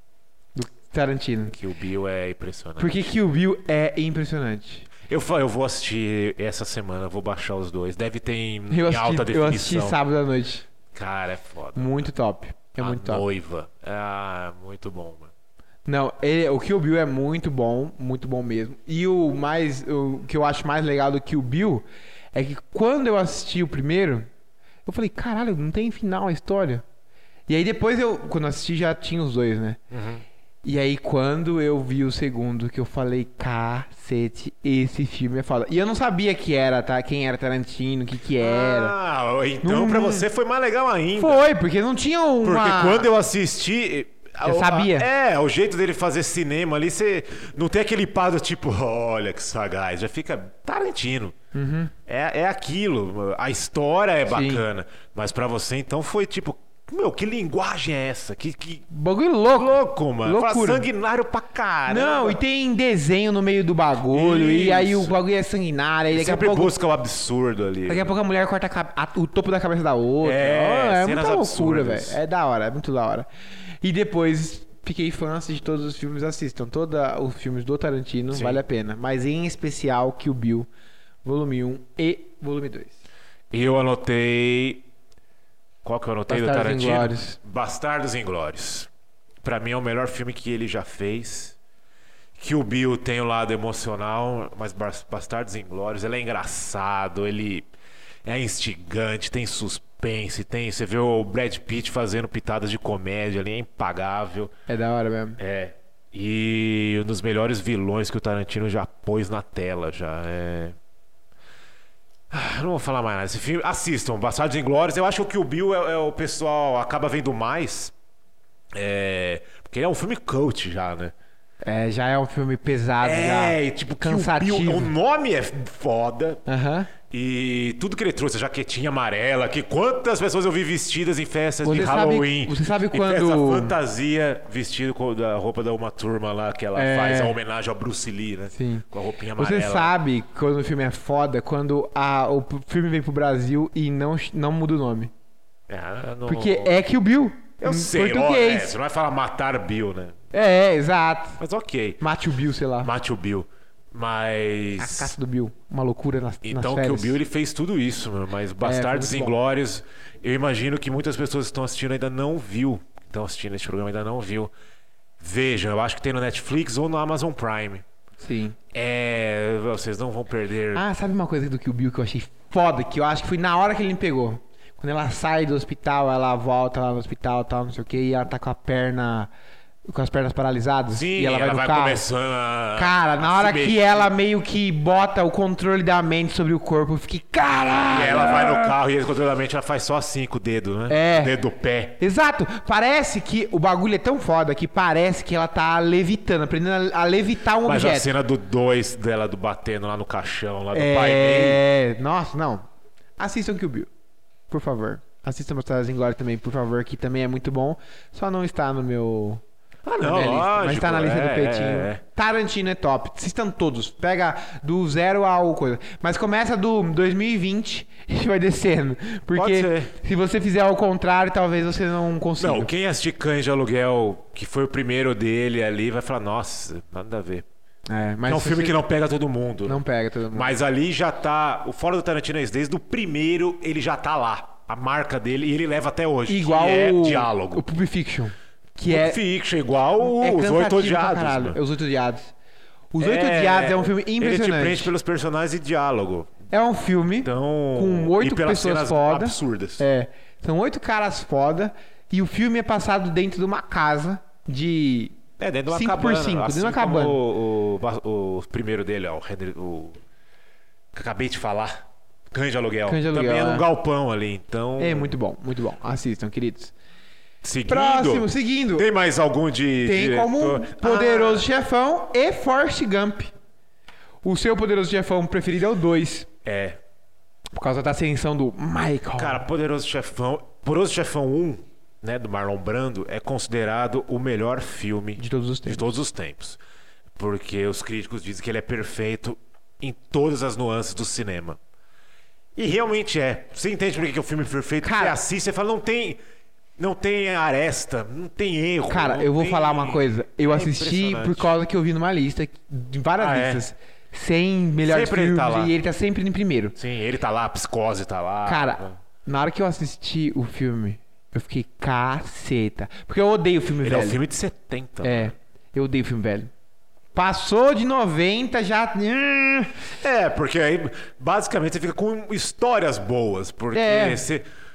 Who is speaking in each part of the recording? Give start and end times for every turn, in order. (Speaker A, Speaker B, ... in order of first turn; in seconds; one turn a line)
Speaker A: 0.5-1.6
Speaker B: 1.5-3.1
Speaker A: 2.8-4.9
Speaker B: 5.0-10.0
Speaker A: 8.7-10.7
Speaker B: 10.9-11.9
Speaker A: 11.8-13.2
Speaker B: 12.8-15.3
Speaker A: 15.8-24.3
Speaker A: 24.9-26.8
Speaker A: 27.5-29.8
Speaker B: 29.9-30.2
Speaker A: 30.6-38.9
Speaker B: 38.4-41.4
Speaker A: 39.6-40.3
Speaker A: 41.1-43.1
Speaker B: 42.4-51.3
Speaker A: 44.4-45.1
Speaker A: 51.5-51.9
Speaker B: 52.1-58.9
Speaker A: 54.3-54.6
Speaker A: 58.9-60.9
Speaker B: 59.5-62.4
Speaker A: 61.9-66.8
Speaker B: 64.1-65.1
Speaker B: 66.1-68.1
Speaker A: 67.9-73.3
Speaker B: 70.2-72.2
Speaker A: 73.8-80.7
Speaker B: 78.3-78.6
Speaker A: 81.2-83.0
Speaker B: 83.5-84.9
Speaker B: 85.8-88.9
Speaker A: 86.3-87.4
Speaker B: 89.4-91.5
Speaker B: 92.3-97.7
Speaker B: 98.2-104.5
Speaker A: 104.7-105.4
Speaker B: 105.4-110.8
Speaker B: 112.3-117.9
Speaker B: 118.7-121.1
Speaker A: 121.6-124.9
Speaker B: 123.0-126.4
Speaker A: 126.5-126.9
Speaker B: 127.1-139.9
Speaker A: 131.6-133.7
Speaker A: 136.7-137.4
Speaker A: 138.5-138.8
Speaker A: 139.4-145.1
Speaker B: 145.7-146.7
Speaker A: 146.3-148.8
Speaker B: 147.6-150.1
Speaker A: 150.3-151.4
Speaker B: 151.4-152.0
Speaker A: 152.0-152.9
Speaker B: 152.8-155.1
Speaker A: 154.8-157.2
Speaker B: 156.4-164.5
Speaker A: 158.6-159.3
Speaker B: 165.2-167.8
Speaker A: 168.2-168.6
Speaker B: 168.7-170.8
Speaker A: 170.7-179.3
Speaker A: 179.9-182.0
Speaker B: 180.9-184.1
Speaker A: 182.8-188.7
Speaker B: 187.9-192.0
Speaker A: 190.9-191.3
Speaker A: 192.0-198.1
Speaker B: 197.6-201.6
Speaker A: 200.7-203.9
Speaker A: 204.5-209.4
Speaker B: 209.8-212.0
Speaker A: 210.0-222.7
Speaker B: 219.3-219.9
Speaker B: 222.4-227.4
Speaker A: 227.9-228.8
Speaker B: 228.2-229.8
Speaker A: 229.7-230.5
Speaker B: 230.3-237.6
Speaker A: 236.3-239.2
Speaker B: 238.9-241.6
Speaker A: 240.0-242.3
Speaker A: 242.9-244.9
Speaker B: 243.0-246.3
Speaker A: 246.5-255.2
Speaker B: 247.2-249.9
Speaker B: 255.4-260.0
Speaker A: 255.7-257.2
Speaker B: 260.9-265.1
Speaker A: 262.9-263.6
Speaker A: 264.8-266.7
Speaker B: 267.4-271.4
Speaker A: 267.7-268.9
Speaker A: 269.8-273.3
Speaker A: 274.2-276.3
Speaker B: 276.4-276.8
Speaker A: 277.5-279.4
Speaker B: 279.1-286.6
Speaker A: 285.2-285.9
Speaker B: 287.2-291.6
Speaker B: 292.6-296.2
Speaker A: 294.8-295.2
Speaker B: 296.8-301.5
Speaker A: 298.9-306.7
Speaker B: 303.2-303.6
Speaker B: 304.9-305.7
Speaker B: 306.7-309.0
Speaker A: 308.4-314.2
Speaker B: 313.8-315.3
Speaker A: 315.0-316.5
Speaker A: 317.1-319.9
Speaker B: 320.0-324.4
Speaker A: 323.7-324.2